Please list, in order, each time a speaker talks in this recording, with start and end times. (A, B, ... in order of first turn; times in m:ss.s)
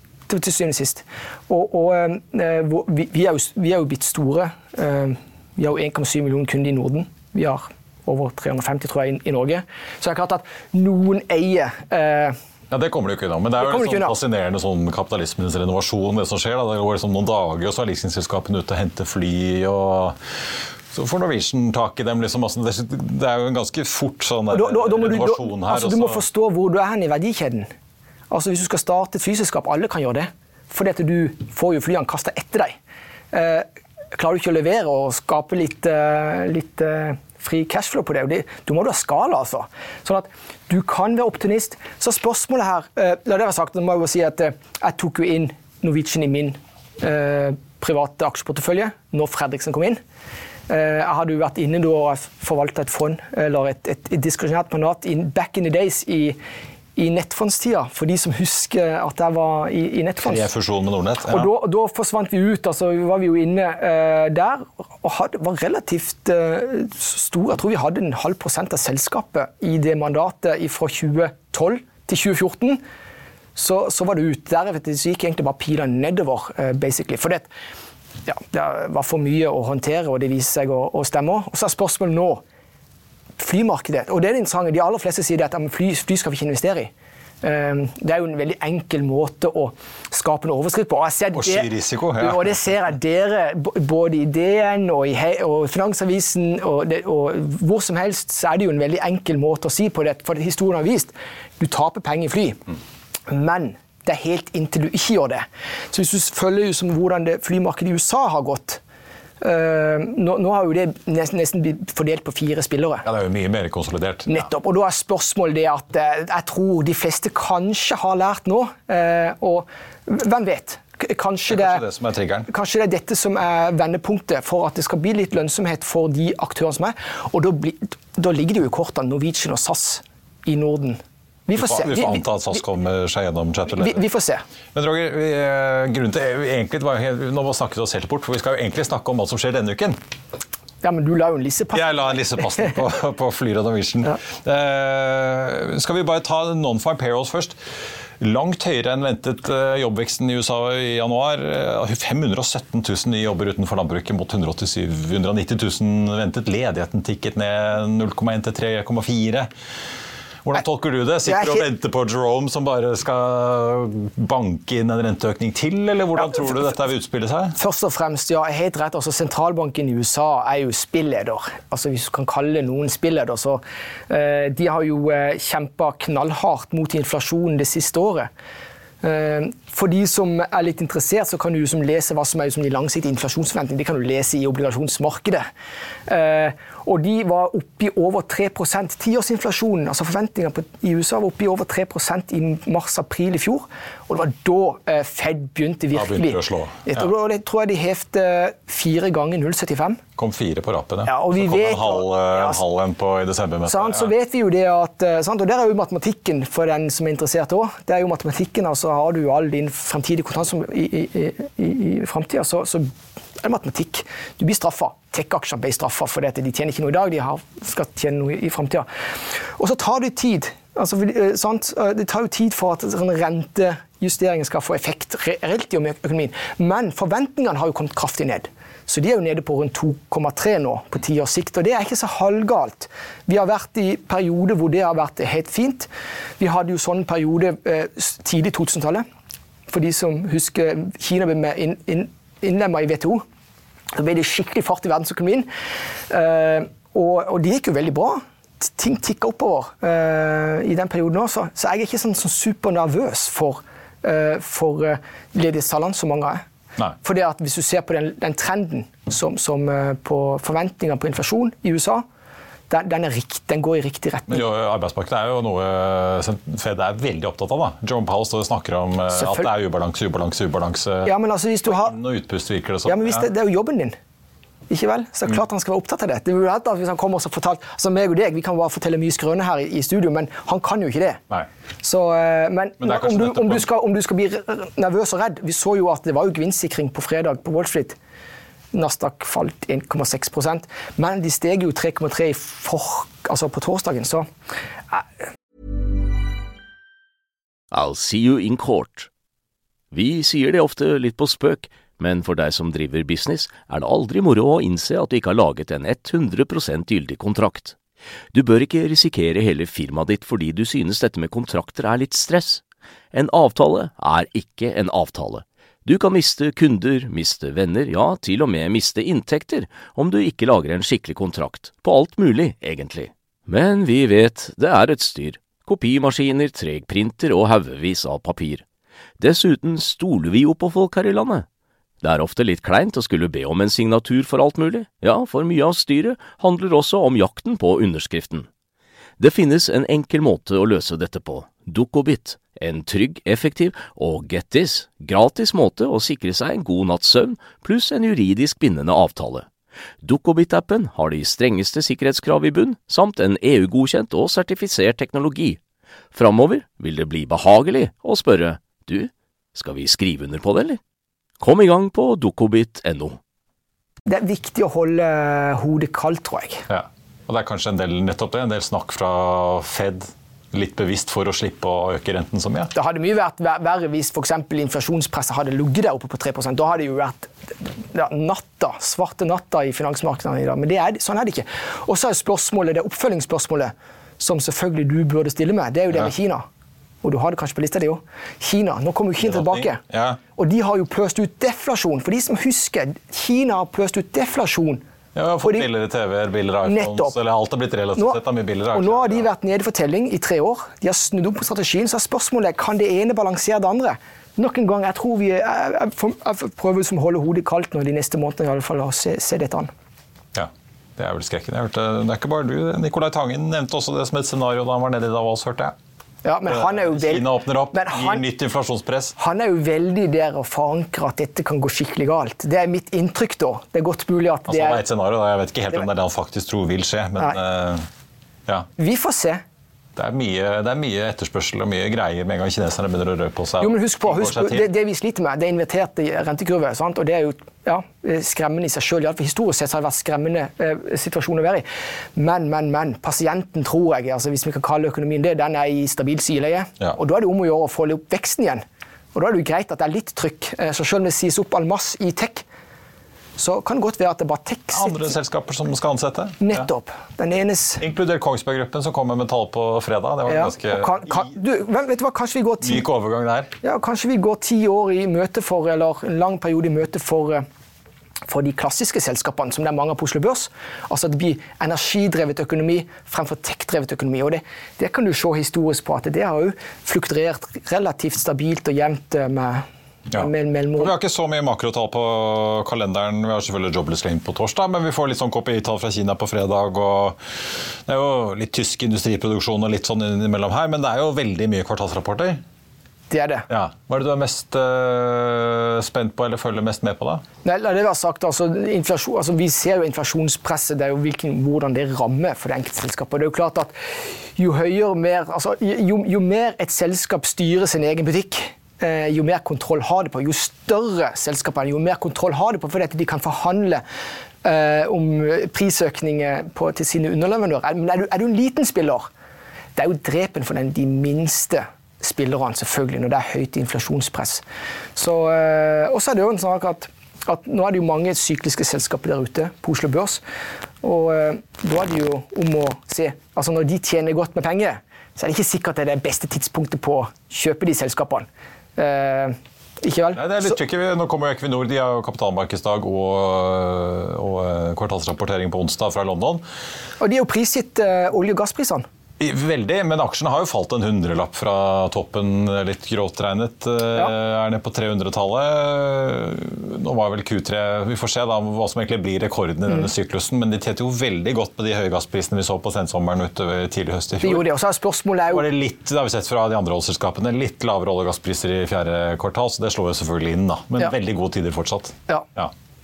0:00.3-0:12.4 A
0:12.7-0:20.2 B
0:13.6-0:14.1 A
0:20.9-0:26.2 B
0:24.5-0:27.7 A
0:28.3-0:32.8 A
0:33.3-0:50.0 A
0:50.7-0:56.4 A
0:57.0-1:00.5 A
1:00.2-1:01.5 B
1:01.3-1:12.8 A
1:13.6-1:17.5 A
1:18.3-1:22.4 A
1:23.4-1:26.9 A
1:27.4-1:42.6 A
1:31.3-1:32.6 B
1:43.3-1:48.8 A
1:49.4-1:53.1 A
1:53.0-1:54.4 B
1:54.3-2:01.8 A
2:01.5-2:02.5 B
2:02.5-2:12.2 A
2:11.6-2:14.0 B
2:13.7-2:14.4 A
2:14.7-2:20.0 B
2:20.8-2:22.6 A
2:21.7-2:27.6 B
2:28.2-2:39.5 B
2:40.4-2:47.6 B
2:41.3-2:41.7 A
2:47.6-2:58.3 A
2:59.0-3:05.5 A
3:06.1-3:20.0 A
3:15.9-3:17.1 B
3:20.2-3:24.1 B
3:21.0-3:22.6 A
3:23.7-3:59.1 A
3:59.7-4:03.2 A
4:03.9-4:05.5 A
4:06.1-4:16.4 A
4:17.0-4:22.0 A
4:22.7-4:24.4 A
4:24.3-4:31.1 B
4:29.1-4:29.5 A
4:31.0-4:31.9 A
4:31.7-4:33.3 B
4:32.8-4:33.9 A
4:34.7-4:41.2 A
4:41.8-4:48.0 A
4:42.8-4:43.7 B
4:48.7-4:54.3 A
4:57.7-4:59.1 C
4:59.9-5:07.8 C
5:08.3-5:12.6 C
5:13.1-5:28.6 C
5:29.2-5:31.4 C
5:32.0-5:38.5 C
5:39.2-5:49.5 C
5:50.0-5:55.6 C
5:56.1-6:00.8 C
6:01.4-6:03.2 C
6:04.1-6:06.7 A
6:06.7-6:12.7 B
6:12.7-6:26.4 A
6:27.0-6:29.8 A
6:29.2-6:30.2 B
6:30.3-6:34.8 A
6:35.2-6:39.3 B
6:35.4-6:35.7 A
6:36.7-6:37.2 A
6:38.7-6:49.7 A
6:50.3-6:55.7 B
6:56.2-6:58.2 A
6:56.5-6:59.2 B
6:59.2-7:04.8 A
7:04.5-7:07.8 B
7:08.8-7:09.4 A
7:10.0-7:14.7 B
7:13.6-7:28.6 A
7:29.1-7:32.4 A
7:33.4-7:35.1 A
7:34.7-7:36.7 B
7:36.4-7:37.8 A
7:37.8-7:41.2 B
7:40.3-7:42.8 A
7:42.6-7:43.5 B
7:43.6-7:47.4 A
7:48.3-8:00.9 A
8:00.1-8:12.4 B
8:13.1-8:13.4 A
8:13.5-8:17.2 B
8:17.4-8:33.8 A
8:34.4-8:39.1 A
8:39.7-8:44.4 A
8:45.0-8:50.2 A
8:50.8-9:00.6 A
9:00.1-9:06.4 B
9:07.0-9:08.9 A
9:09.2-9:24.5 B
9:24.2-9:25.5 A
9:25.3-9:32.5 B